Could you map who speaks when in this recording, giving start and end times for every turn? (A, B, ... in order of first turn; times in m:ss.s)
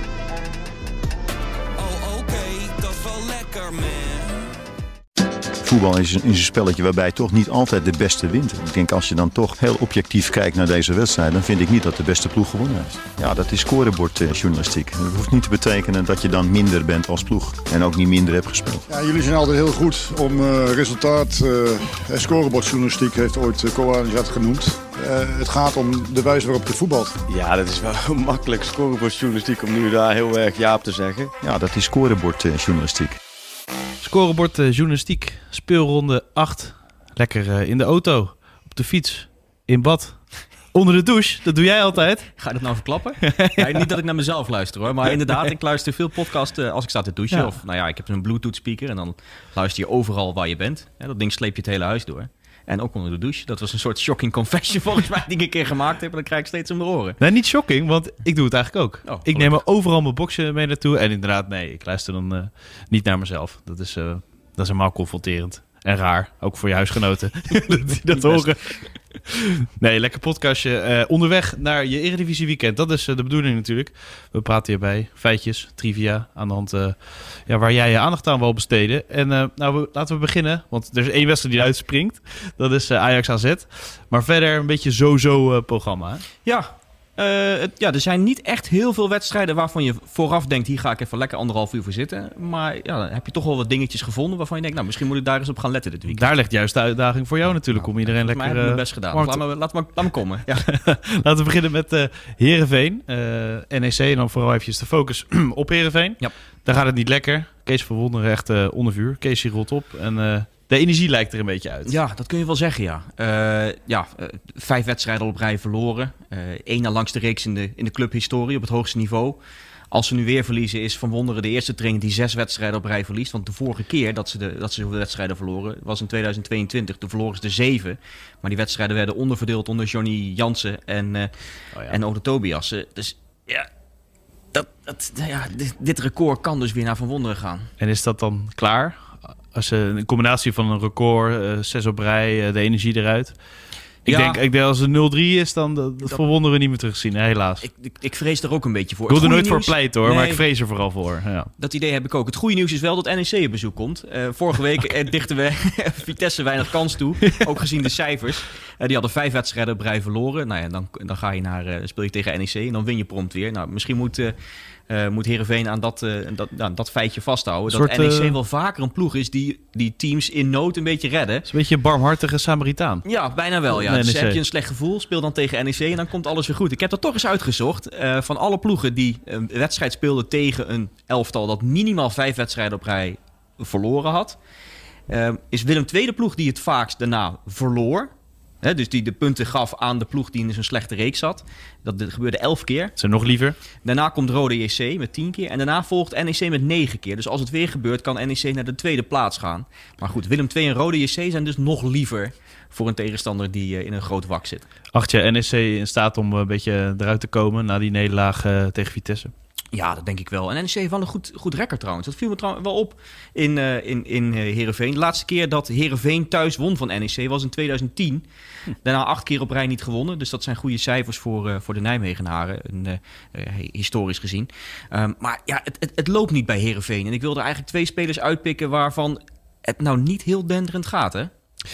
0:01.8-0:04.5 A
0:05.6-0:18.8 B
0:18.9-0:27.2 C
0:27.3-0:31.3 D
0:31.4-0:33.2 B
0:34.0-0:42.4 E
0:42.4-0:57.2 F
0:43.2-0:43.9 E
0:57.2-1:26.2 E
0:59.0-0:59.6 F
1:08.1-1:08.5 F
1:26.4-1:36.2 F
1:36.1-1:39.4 E
1:37.4-1:40.6 F
1:40.6-1:52.0 E
1:51.8-1:59.4 F
1:59.9-2:11.3 F
2:11.8-2:13.7 F
2:14.5-2:17.7 F
2:17.8-2:23.3 E
2:24.0-2:24.4 F
2:24.0-2:27.6 E
2:27.6-2:30.4 F
2:29.1-2:31.5 E
2:31.6-2:44.3 F
2:44.9-2:51.5 F
2:47.7-2:48.4 E
2:51.5-2:53.0 E
2:53.0-3:04.4 F
2:53.7-2:54.4 E
3:05.1-3:13.0 F
3:13.0-3:13.6 E
3:13.8-3:24.6 F
3:24.9-3:29.3 E
3:29.7-3:38.2 F
3:38.8-3:51.3 F